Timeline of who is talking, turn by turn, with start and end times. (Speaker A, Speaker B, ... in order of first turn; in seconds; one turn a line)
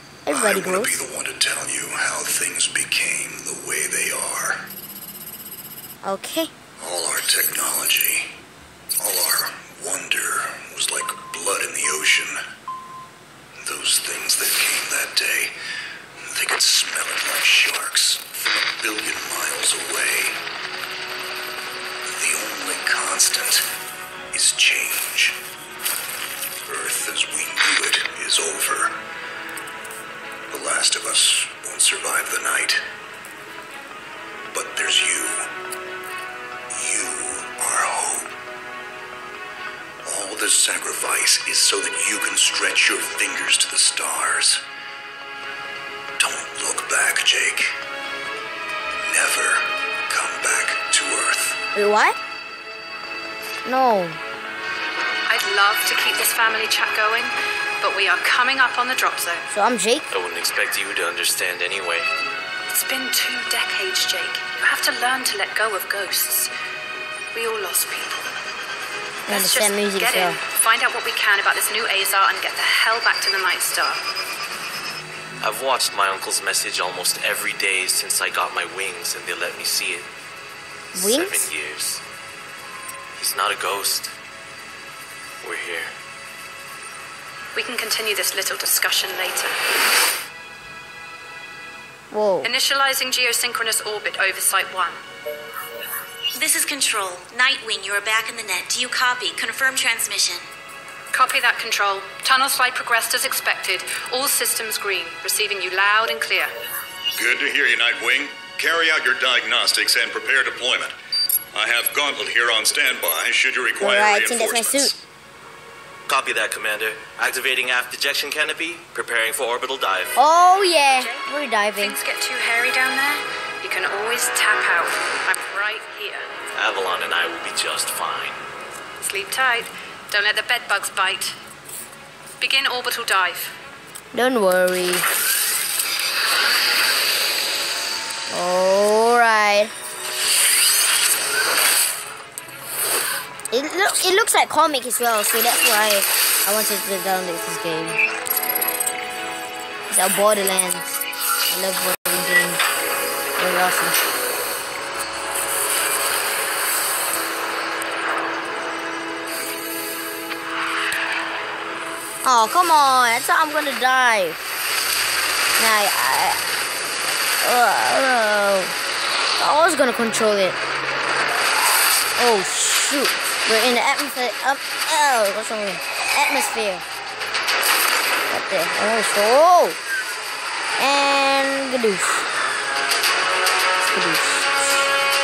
Speaker A: 0.2-1.0
Speaker B: 0.3-4.6
Speaker A: 6.0-6.5
Speaker B: 6.8-8.3
Speaker B: 9.0-12.4
Speaker B: 13.6-15.5
Speaker B: 16.3-20.4
Speaker B: 22.1-23.6
Speaker B: 24.3-25.4
Speaker B: 26.6-29.0
Speaker B: 30.5-32.8
Speaker B: 34.5-35.5
Speaker B: 36.7-38.3
Speaker B: 40.0-44.6
Speaker B: 46.2-47.8
Speaker B: 49.1-51.6
Speaker A: 51.7-52.2
Speaker A: 53.6-54.2
Speaker C: 55.3-59.4
Speaker A: 59.5-60.1
Speaker D: 60.1-62.1
Speaker C: 62.7-66.5
Speaker C: 67.3-68.3
Speaker A: 69.3-70.4
Speaker C: 69.3-74.0
Speaker D: 75.4-80.1
Speaker A: 80.9-81.5
Speaker D: 80.9-82.0
Speaker D: 83.2-84.1
Speaker D: 85.4-85.9
Speaker C: 87.5-89.5
Speaker A: 92.1-92.5
Speaker C: 92.4-95.0
Speaker E: 96.3-100.5
Speaker C: 101.1-106.5
Speaker F: 107.2-110.9
Speaker F: 111.5-114.5
Speaker A: 113.8-114.9
Speaker D: 116.1-120.2
Speaker A: 120.2-122.0
Speaker C: 120.9-121.2
Speaker C: 121.8-126.2
Speaker D: 126.5-128.4
Speaker C: 129.0-131.3
Speaker C: 132.4-133.5
Speaker A: 134.1-135.0
Speaker A: 138.3-139.7
Speaker A: 143.5-148.0
Speaker A: 149.9-152.6
Speaker A: 153.4-154.0
Speaker A: 162.2-164.4
Speaker A: 165.6-166.4
Speaker A: 167.4-168.7
Speaker A: 169.4-170.6
Speaker A: 172.2-176.8
Speaker A: 178.3-179.8
Speaker A: 180.8-182.3
Speaker A: 183.8-184.8